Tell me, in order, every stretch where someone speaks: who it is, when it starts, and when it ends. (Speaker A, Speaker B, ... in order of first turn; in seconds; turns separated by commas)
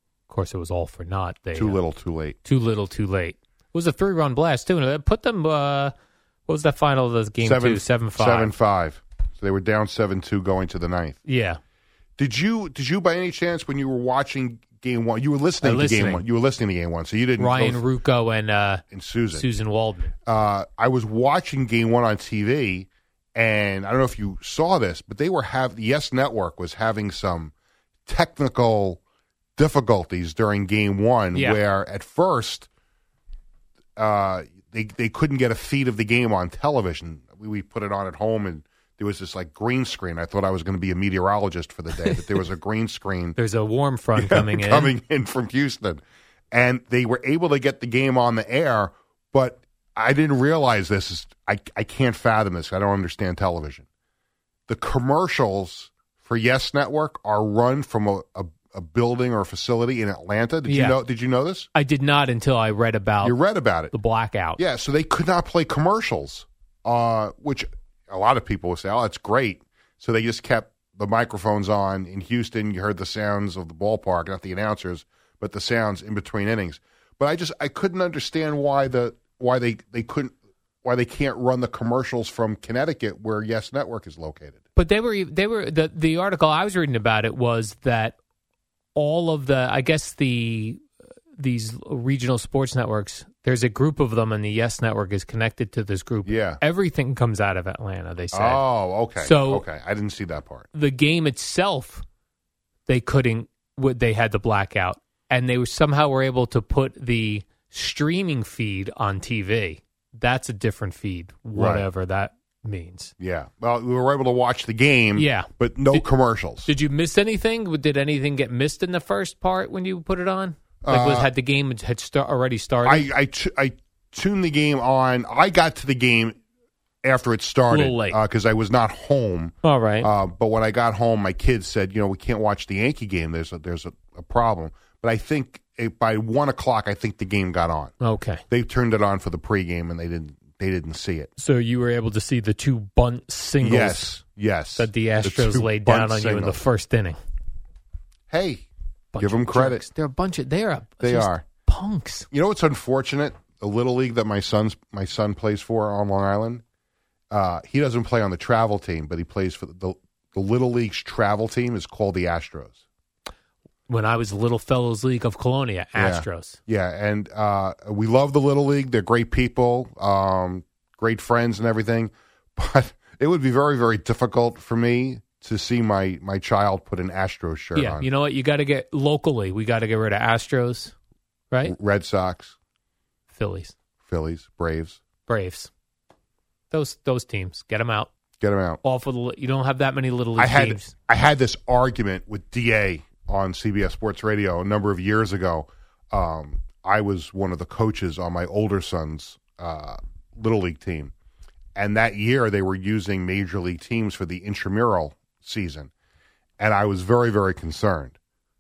Speaker A: 0.3-1.8, Speaker B: 1.6-2.4, Speaker A: 2.4-5.9, Speaker A: 6.5-8.5, Speaker B: 7.4-11.2, Speaker A: 11.2-11.6, Speaker B: 12.2-17.8, Speaker A: 15.6-16.2, Speaker A: 17.4-20.1, Speaker B: 18.9-19.5, Speaker B: 20.3-27.5, Speaker B: 28.1-29.0, Speaker B: 29.6-32.7, Speaker B: 34.0-43.4, Speaker A: 43.4-44.9, Speaker B: 44.2-53.9, Speaker B: 54.7-61.7, Speaker A: 60.7-61.0, Speaker A: 61.7-63.4, Speaker B: 63.2-63.9, Speaker A: 63.9-64.6, Speaker B: 64.6-84.6, Speaker A: 84.8-88.2, Speaker A: 89.0-90.8, Speaker A: 91.4-98.6, Speaker B: 96.3-96.6, Speaker B: 98.3-100.7, Speaker A: 99.2-99.7, Speaker A: 100.7-102.0, Speaker A: 102.9-113.1, Speaker B: 111.5-111.9, Speaker B: 113.2-116.7, Speaker A: 115.2-116.1, Speaker A: 116.7-123.1, Speaker B: 120.8-121.3, Speaker B: 122.8-126.4, Speaker B: 127.0-137.9, Speaker A: 127.7-128.2, Speaker A: 129.6-130.1, Speaker A: 138.0-138.4, Speaker B: 138.5-141.3, Speaker A: 141.4-144.1, Speaker B: 143.6-146.6, Speaker A: 144.8-147.2, Speaker B: 148.3-149.8, Speaker A: 149.1-152.3, Speaker B: 151.0-151.4, Speaker B: 152.3-156.6, Speaker B: 157.3-162.8, Speaker A: 163.9-166.6, Speaker B: 166.0-178.1, Speaker A: 177.8-180.9, Speaker A: 181.5-181.8, Speaker B: 181.7-182.6, Speaker A: 183.3-183.8, Speaker B: 184.1-185.0, Speaker A: 185.3-185.7, Speaker A: 186.7-188.1, Speaker B: 188.4-188.8, Speaker A: 188.8-190.9, Speaker B: 190.4-201.1, Speaker B: 201.8-205.9, Speaker B: 206.6-208.2